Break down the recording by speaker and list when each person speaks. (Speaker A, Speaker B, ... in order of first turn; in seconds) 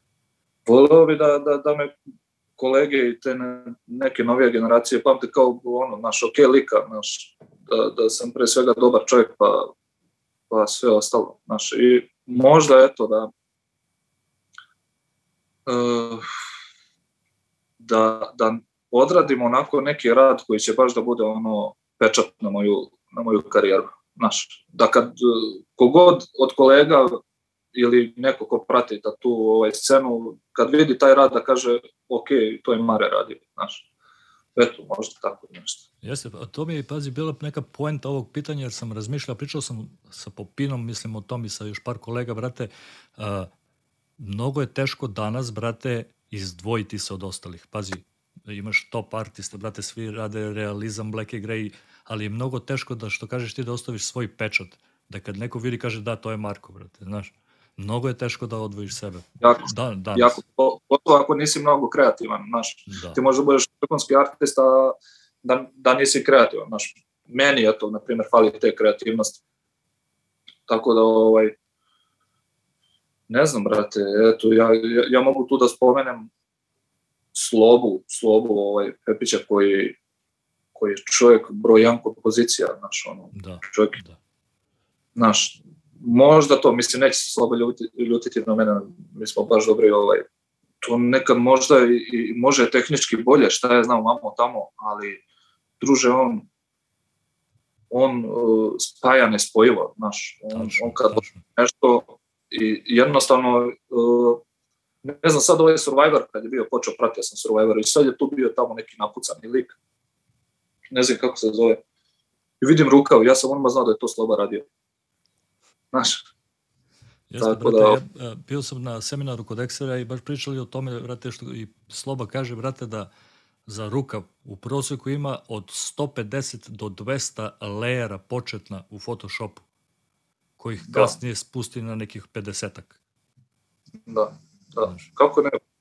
Speaker A: 0.7-1.9, 2.6-9.7, 10.5-13.3, 15.7-16.3, 17.8-27.2, 27.7-33.9, 34.6-35.9, 59.4-69.4, 70.7-71.6, 73.3-76.3, 77.3-80.0, 80.8-84.0, 85.2-90.3, 90.8-95.2, 95.8-96.5, 97.9-104.4, 105.0-109.8, 110.9-111.8, 112.6-114.7, 115.9-116.2, 117.4-118.0, 134.1-135.6
Speaker B: 36.0-43.5, 44.2-60.4, 62.9-63.2, 83.3-84.2, 100.5-101.4, 117.3-123.1, 123.7-129.6, 130.6-132.9, 134.8-135.1